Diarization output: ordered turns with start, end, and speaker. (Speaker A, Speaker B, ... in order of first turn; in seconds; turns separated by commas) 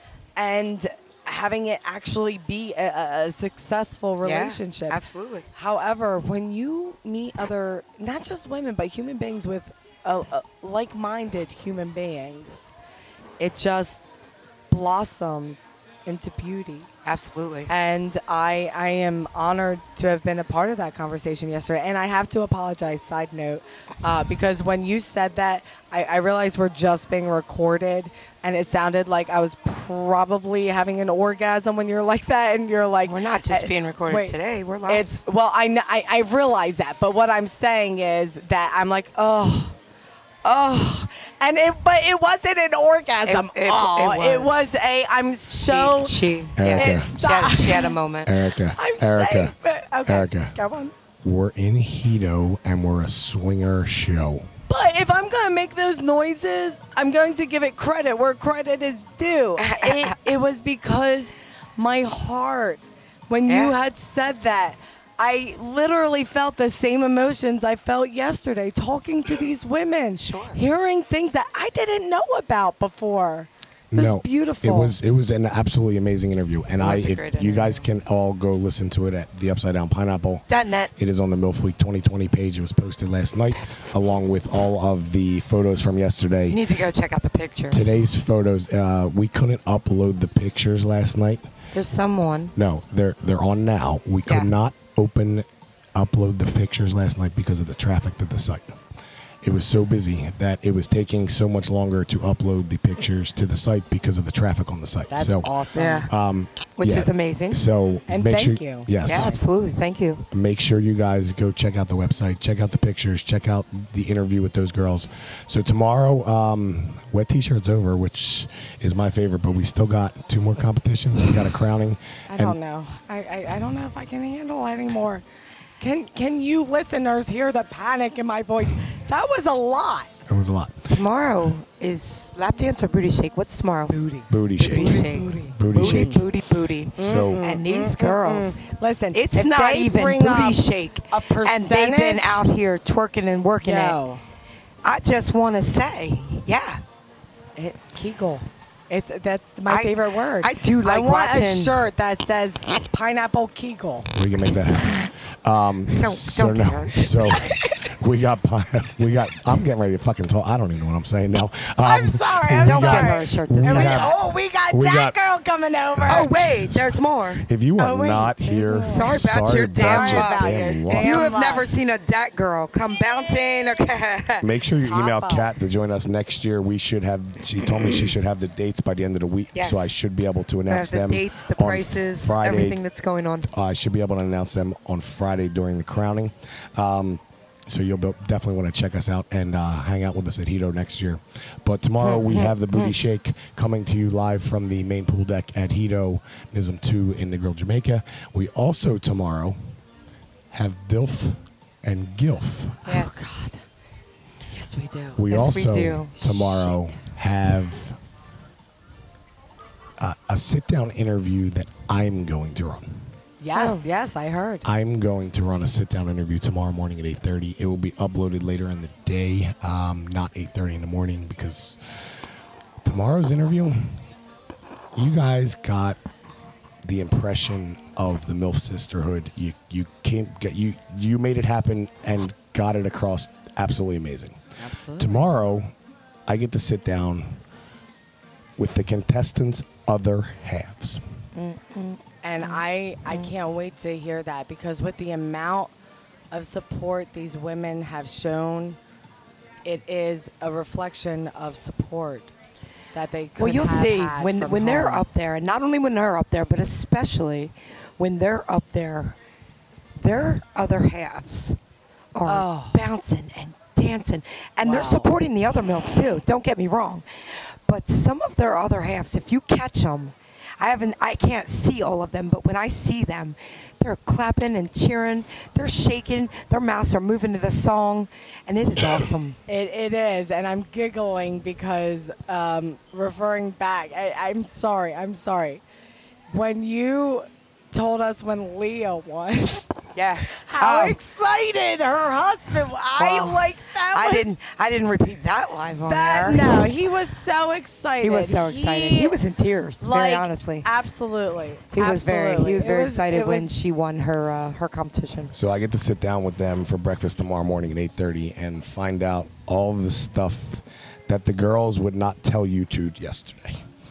Speaker A: 0.3-5.0, Speaker B: 4.2-5.5, Speaker A: 5.5-12.7, Speaker A: 13.4-14.0, Speaker A: 14.7-16.9, Speaker B: 17.0-17.7, Speaker A: 17.7-39.8, Speaker B: 33.0-35.0, Speaker A: 40.4-48.0, Speaker B: 43.2-44.7, Speaker B: 45.5-48.3, Speaker C: 46.6-47.1, Speaker C: 48.2-49.5, Speaker A: 48.8-50.9, Speaker C: 50.0-50.5, Speaker C: 51.2-54.5, Speaker A: 54.7-74.9, Speaker B: 59.6-60.1, Speaker B: 63.5-63.7, Speaker B: 70.2-70.6, Speaker C: 73.9-80.4, Speaker B: 76.8-77.8, Speaker B: 80.5-80.9, Speaker C: 81.0-86.6, Speaker B: 86.5-88.0, Speaker C: 87.7-91.5, Speaker B: 91.7-92.5, Speaker C: 92.5-98.8, Speaker C: 99.4-105.5, Speaker A: 105.1-106.1, Speaker B: 105.7-106.1, Speaker C: 106.0-109.3, Speaker B: 106.8-107.6, Speaker A: 108.1-109.4, Speaker B: 109.0-110.2, Speaker C: 110.3-122.6, Speaker A: 122.3-125.2, Speaker A: 125.8-130.1, Speaker C: 130.3-131.0, Speaker B: 130.9-133.9, Speaker A: 133.9-136.2, Speaker C: 134.3-136.3, Speaker B: 134.6-138.6, Speaker C: 137.0-137.4, Speaker A: 137.0-142.4, Speaker B: 139.1-144.0, Speaker A: 143.6-144.2, Speaker B: 144.8-146.8, Speaker A: 147.6-154.1, Speaker B: 149.7-151.8, Speaker C: 154.1-164.2, Speaker B: 155.9-157.5, Speaker A: 161.8-166.3, Speaker B: 162.6-164.2, Speaker C: 164.7-165.1, Speaker C: 165.9-166.9, Speaker B: 166.1-167.5, Speaker C: 167.4-171.3, Speaker A: 167.8-171.7, Speaker B: 168.8-174.5, Speaker C: 174.4-182.8, Speaker A: 174.8-175.5, Speaker B: 179.5-179.9, Speaker B: 180.7-183.5, Speaker C: 183.5-199.6, Speaker B: 192.0-192.9, Speaker C: 200.5-202.9, Speaker A: 202.8-203.6, Speaker B: 202.8-203.2, Speaker A: 204.5-205.2, Speaker C: 205.2-208.0, Speaker B: 205.3-206.7, Speaker C: 210.0-213.0, Speaker A: 213.4-214.7, Speaker B: 213.5-213.8, Speaker C: 214.6-221.8, Speaker C: 222.8-223.9, Speaker C: 224.9-226.0, Speaker C: 226.8-234.4, Speaker A: 234.6-235.3, Speaker C: 235.0-235.7, Speaker C: 236.3-237.4, Speaker C: 238.6-241.0, Speaker B: 241.3-242.6, Speaker A: 242.2-245.7, Speaker A: 246.3-248.8, Speaker A: 249.6-252.3, Speaker A: 252.9-255.1, Speaker B: 253.4-259.2, Speaker B: 260.0-261.6, Speaker B: 262.1-279.4, Speaker A: 262.2-262.8, Speaker A: 264.6-265.1, Speaker A: 279.5-285.6, Speaker A: 286.3-289.6, Speaker B: 289.9-291.0, Speaker A: 290.2-294.3, Speaker B: 293.0-296.7, Speaker A: 295.9-299.2, Speaker B: 298.0-300.7, Speaker A: 299.8-303.5, Speaker B: 301.7-305.3, Speaker C: 305.3-313.6